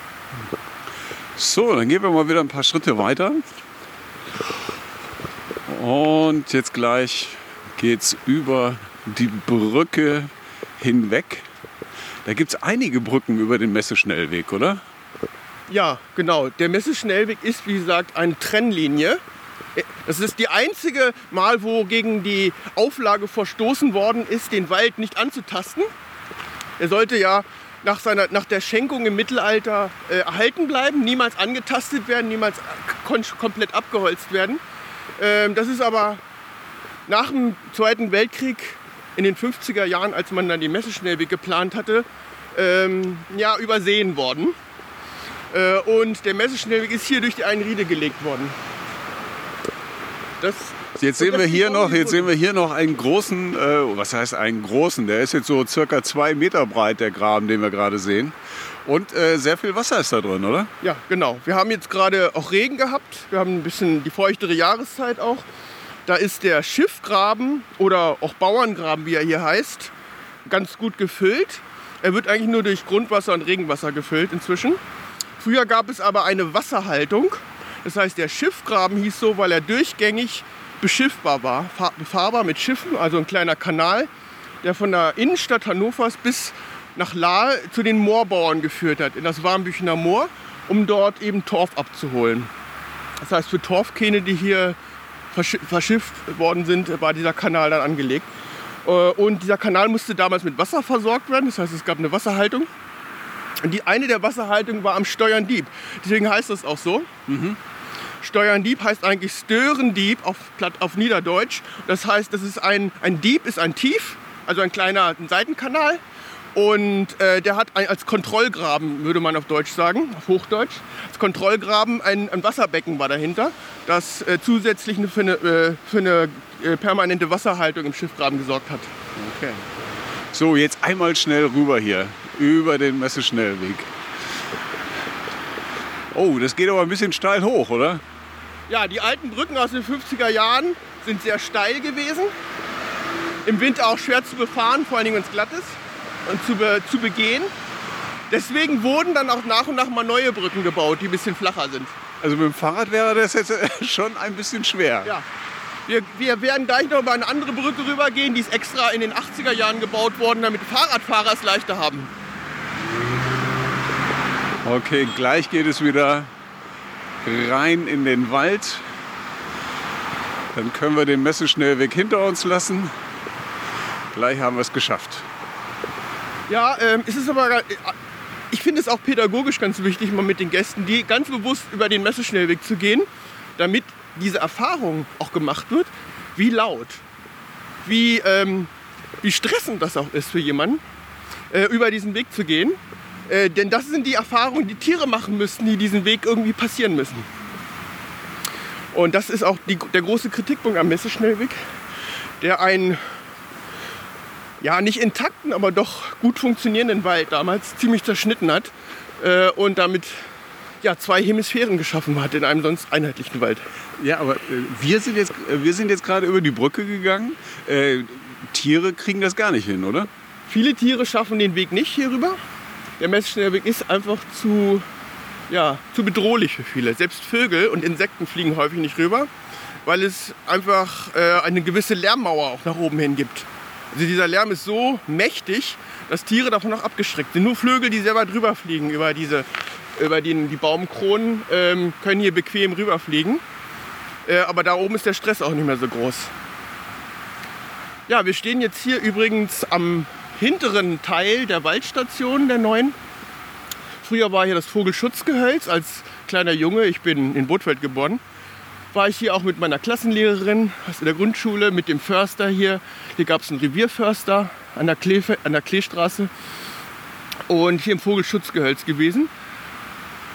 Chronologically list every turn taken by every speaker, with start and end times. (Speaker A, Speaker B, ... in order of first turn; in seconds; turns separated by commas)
Speaker A: 1.4-3.4, Speaker A: 5.7-11.5, Speaker A: 12.2-14.8, Speaker B: 15.7-19.2, Speaker B: 19.8-25.9, Speaker B: 26.8-34.6, Speaker B: 35.2-36.2, Speaker B: 37.1-44.5, Speaker B: 45.5-48.5, Speaker B: 50.4-52.3, Speaker A: 50.9-60.7, Speaker B: 60.8-65.5, Speaker B: 66.1-69.9, Speaker B: 70.5-74.8, Speaker B: 75.4-84.1, Speaker B: 84.6-92.5, Speaker B: 93.2-94.8, Speaker B: 95.3-98.3, Speaker B: 98.8-102.7, Speaker B: 103.6-107.1, Speaker A: 107.3-107.6, Speaker B: 108.2-116.0, Speaker B: 116.5-128.9, Speaker A: 129.2-129.6, Speaker A: 130.3-133.9, Speaker A: 136.1-138.0, Speaker B: 138.7-142.3, Speaker B: 143.4-147.5, Speaker B: 148.3-151.9, Speaker A: 152.2-155.1, Speaker B: 155.9-162.1, Speaker A: 164.6-166.3, Speaker A: 167.2-168.8, Speaker A: 170.5-172.9, Speaker A: 174.1-175.3, Speaker B: 176.5-177.9, Speaker B: 178.5-187.0, Speaker B: 187.8-188.7, Speaker B: 189.2-190.8, Speaker B: 191.5-197.3, Speaker B: 198.9-201.6, Speaker B: 202.4-203.0, Speaker B: 204.6-210.3, Speaker B: 210.8-213.6, Speaker A: 214.0-220.1, Speaker B: 220.5-222.4, Speaker B: 223.0-224.8, Speaker B: 225.5-229.3, Speaker B: 229.8-243.4, Speaker B: 244.2-246.3, Speaker B: 248.1-252.9, Speaker B: 254.0-258.2, Speaker B: 258.9-266.3, Speaker B: 267.5-269.3